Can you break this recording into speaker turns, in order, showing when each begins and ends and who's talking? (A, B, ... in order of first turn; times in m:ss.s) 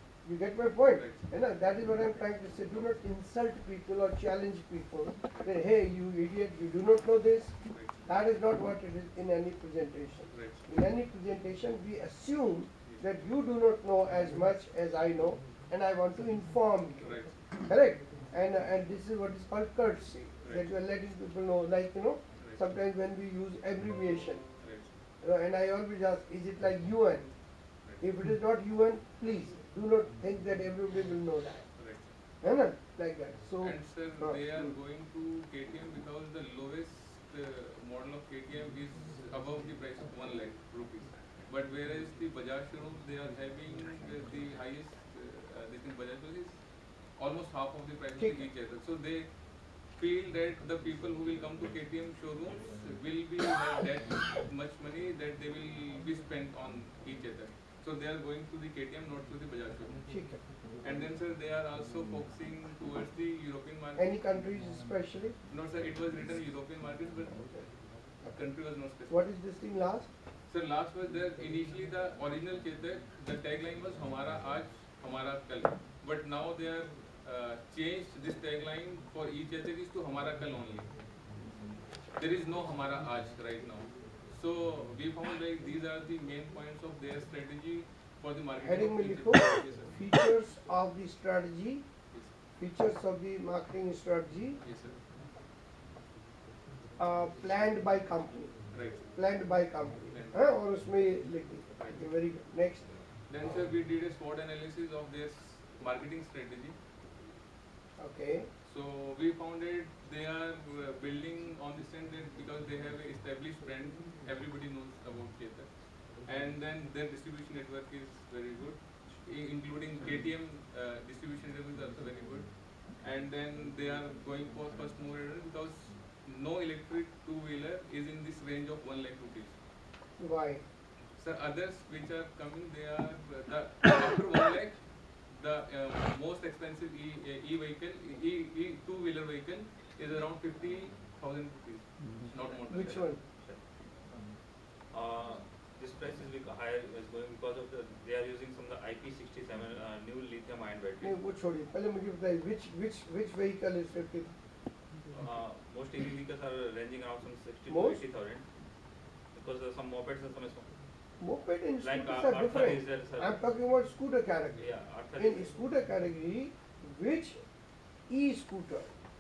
0:00.2-0:07.6 A
0:00.9-0:01.3 B
0:05.3-0:05.6 B
0:07.7-0:08.1 B
0:08.1-0:24.4 A
0:10.3-0:10.7 B
0:17.0-0:17.4 B
0:20.4-0:20.7 B
0:24.6-0:25.0 B
0:25.2-0:27.3 A
0:28.0-0:31.7 A
0:31.8-0:32.1 B
0:32.4-0:34.7 A
0:33.6-0:46.6 B
0:47.2-0:49.3 B
0:48.2-0:48.5 A
0:49.8-1:00.0 B
1:00.1-1:00.4 A
1:00.8-1:04.2 B
1:04.0-1:05.4 A
1:05.5-1:07.7 B
1:08.3-1:09.2 B
1:09.1-1:10.1 A
1:10.5-1:20.9 B
1:22.2-1:30.0 B
1:28.6-1:31.8 A
1:32.6-1:34.6 A
1:34.6-1:35.0 B
1:37.0-1:38.5 A
1:38.7-1:39.0 B
1:39.2-1:42.9 A
1:40.1-1:40.4 B
1:41.8-1:42.0 B
1:43.3-1:46.8 B
1:48.0-1:48.5 A
1:48.6-2:09.6 B
2:10.2-2:10.6 A
2:11.2-2:23.1 B
2:22.3-2:23.6 C
2:22.7-2:23.2 A
2:24.9-2:31.2 C
2:31.0-2:34.3 A
2:35.1-2:38.4 C
2:37.7-2:38.0 A
2:39.3-2:40.7 C
2:41.2-2:47.4 A
2:41.8-2:43.4 C
2:44.6-2:45.6 C
2:48.1-2:48.9 A